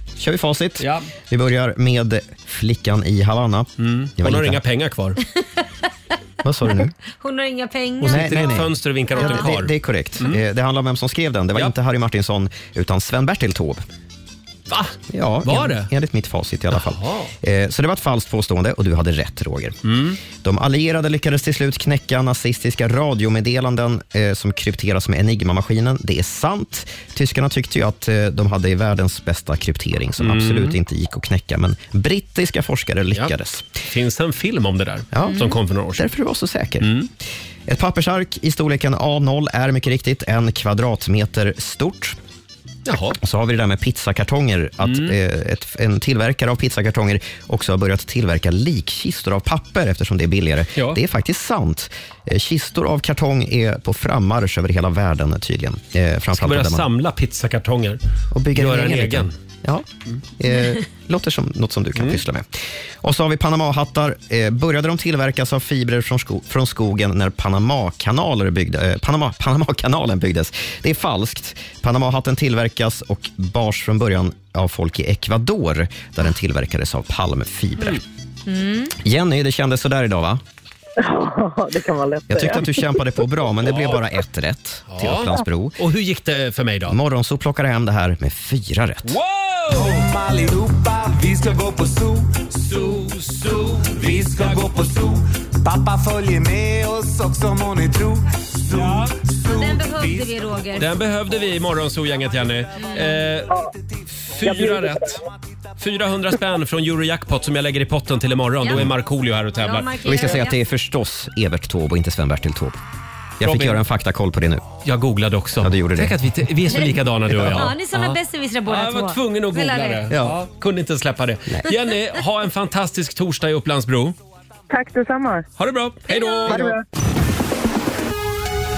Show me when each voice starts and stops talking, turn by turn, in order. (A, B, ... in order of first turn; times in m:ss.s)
0:00.2-0:04.6 A
0:00.8-0:01.1 B
0:03.8-0:05.2 B
0:06.4-0:06.9 A
0:07.2-0:08.6 C
0:08.0-0:10.4 B
0:08.0-0:13.8 A
0:09.2-0:09.4 C
0:14.7-0:15.9 B
0:15.1-0:19.8 A
0:16.7-0:17.3 B
0:19.8-0:20.2 B
0:20.4-0:33.7 A
0:30.2-0:30.7 B
0:33.9-0:36.1 B
0:35.1-0:35.4 A
0:35.2-0:35.5 C
0:36.0-0:36.9 A
0:36.8-0:37.1 B
0:37.7-0:42.2 A
0:42.8-0:43.2 B
0:43.1-0:56.9 A
0:44.8-0:45.1 B
0:56.3-0:58.0 B
0:58.3-0:59.9 A
0:58.5-0:59.3 B
1:00.4-1:18.0 A
1:18.5-1:18.9 C
1:19.0-1:20.4 A
1:21.0-1:22.8 D
1:22.3-1:25.8 A
1:23.6-1:24.0 B
1:24.9-1:27.0 B
1:26.9-1:29.2 A
1:29.0-1:30.1 B
1:29.7-1:32.9 E
1:32.7-1:34.6 B
1:33.6-1:40.3 E
1:38.8-1:39.1 B
1:39.5-1:40.9 C
1:40.8-1:43.5 B
1:42.8-1:43.2 C
1:44.3-1:45.2 B
1:45.8-1:50.3 B
1:48.6-1:48.9 C
1:49.6-1:50.6 C
1:50.0-1:52.8 A
1:53.4-1:54.6 A
1:53.4-1:53.8 B
1:54.8-2:04.2 B
1:55.6-1:56.2 A
1:56.7-2:00.1 C
2:00.1-2:00.4 A
2:04.7-2:05.4 D
2:05.6-2:06.7 B
2:06.1-2:06.6 C
2:06.5-2:06.7 A